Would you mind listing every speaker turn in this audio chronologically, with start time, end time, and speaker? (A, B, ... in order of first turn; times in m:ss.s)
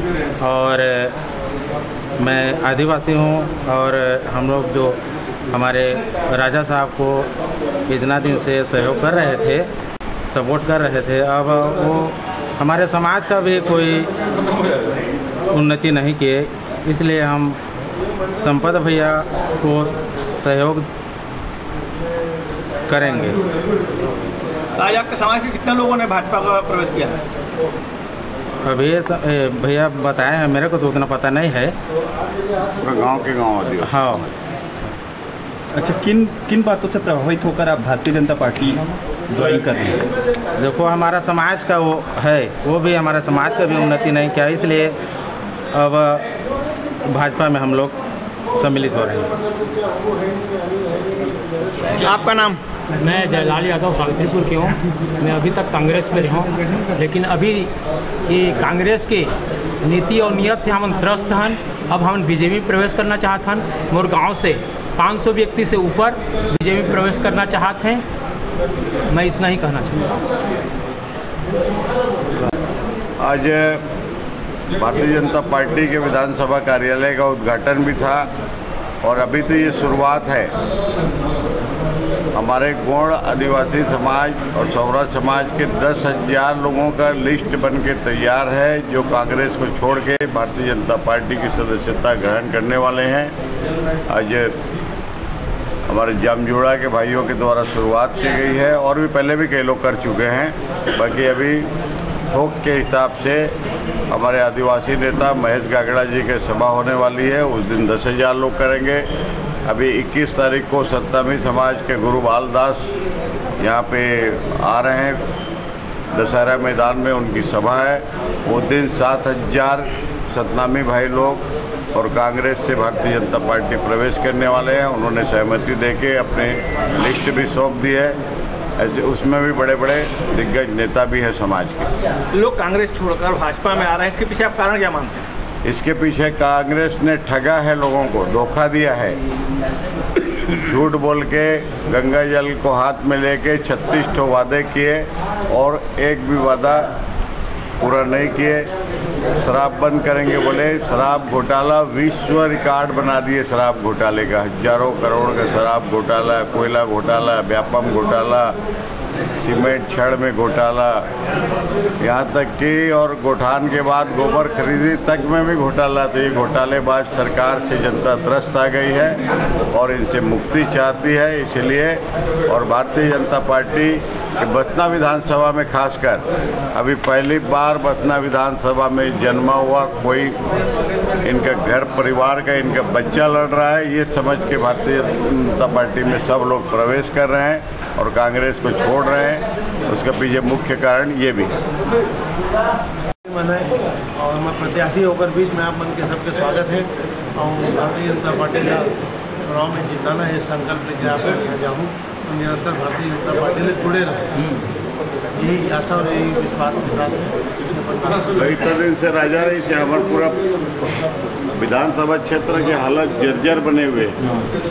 0:00.4-0:01.1 A
0:02.2-0:05.0 A
0:05.5-0:07.3 A
0:07.9-0:09.7 A
0:10.3-0:14.1 A
0:15.5-0:17.6 A
0:18.4-0:20.8 A
0:22.9-0:23.4 A
0:24.8-0:27.2 B
0:28.6-0:31.8 A
0:32.8-0:34.2 C
0:33.8-0:34.2 A
0:35.7-0:40.1 D
0:40.6-0:45.0 A
0:45.7-0:46.2 A
0:47.1-0:48.0 A
0:48.6-0:49.3 A
0:52.0-0:52.6 B
0:53.0-0:57.7 E
0:58.3-0:59.3 E
0:59.8-1:08.0 E
1:09.1-1:10.2 E
1:13.2-1:13.8 C
1:14.7-1:18.3 C
1:19.0-1:20.5 C
1:22.4-1:33.3 C
1:34.1-1:34.6 C
1:35.9-1:41.7 C
1:42.3-1:43.5 C
1:44.1-1:49.0 C
1:49.7-1:52.9 C
1:53.6-1:55.2 C
1:56.1-2:01.4 C
2:02.0-2:08.2 C
2:08.8-2:11.9 C
2:12.4-2:15.2 B
2:15.6-2:19.2 C
2:20.5-2:26.9 C
2:27.8-2:28.7 C
2:29.4-2:38.6 C
2:39.4-2:41.0 C
2:42.0-2:49.2 C
2:49.7-3:00.4 C
3:01.2-3:11.5 C
3:13.3-3:24.5 F
3:25.4-3:28.6 F
3:28.4-3:30.4 C
3:31.6-3:34.2 C